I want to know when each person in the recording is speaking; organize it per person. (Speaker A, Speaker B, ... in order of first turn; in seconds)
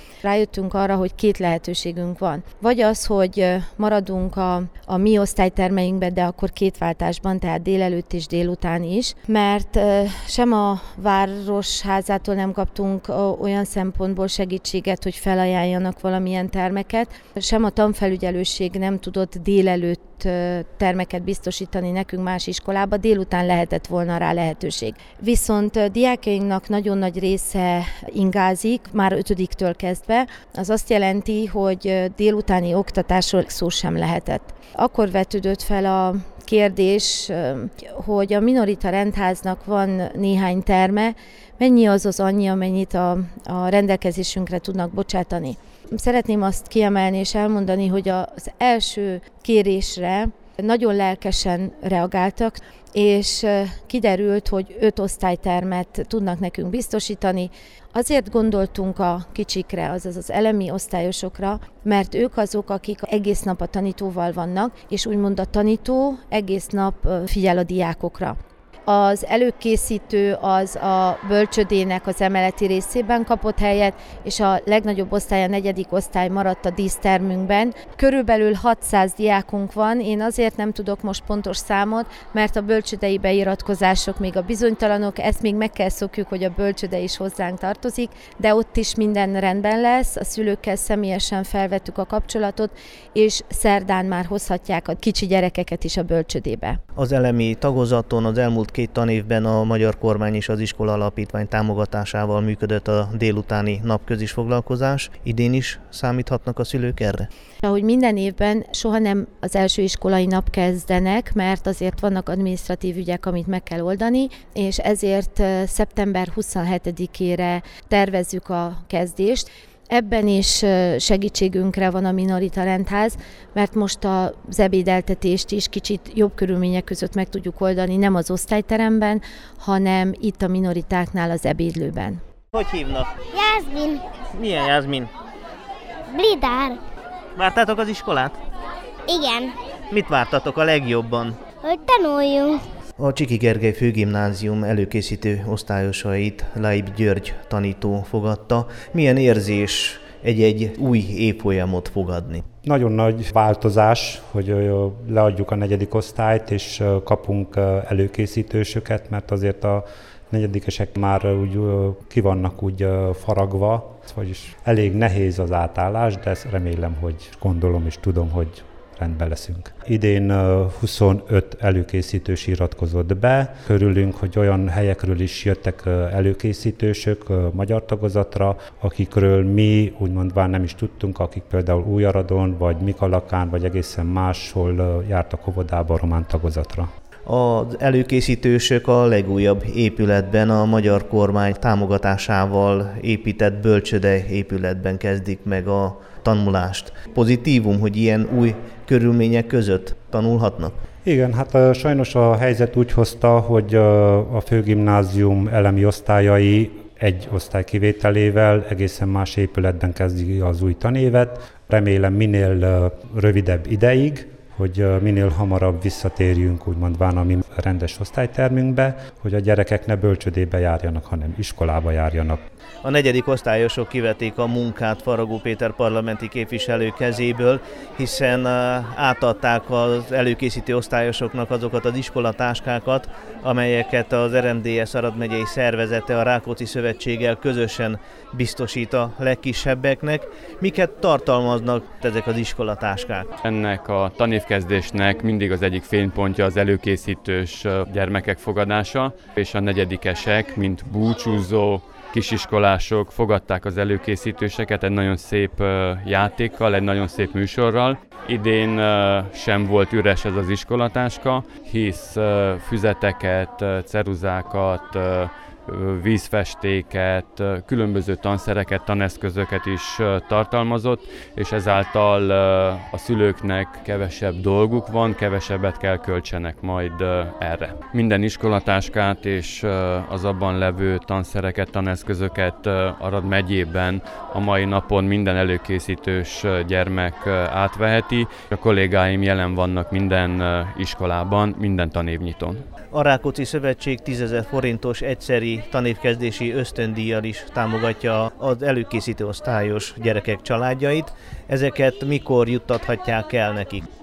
Speaker A: 0.2-68.4, 68.9-96.8, 107.6-132.2
Speaker B: 97.0-107.3, 132.5-133.1, 134.3-135.1, 137.3-138.4, 139.9-141.4, 143.0-152.4, 187.3-200.8, 222.8-243.3, 292.9-303.9
Speaker C: 133.3-134.0, 136.1-136.8, 139.1-139.6, 141.6-142.6
Speaker D: 152.6-186.9, 201.1-222.4
Speaker E: 243.4-292.6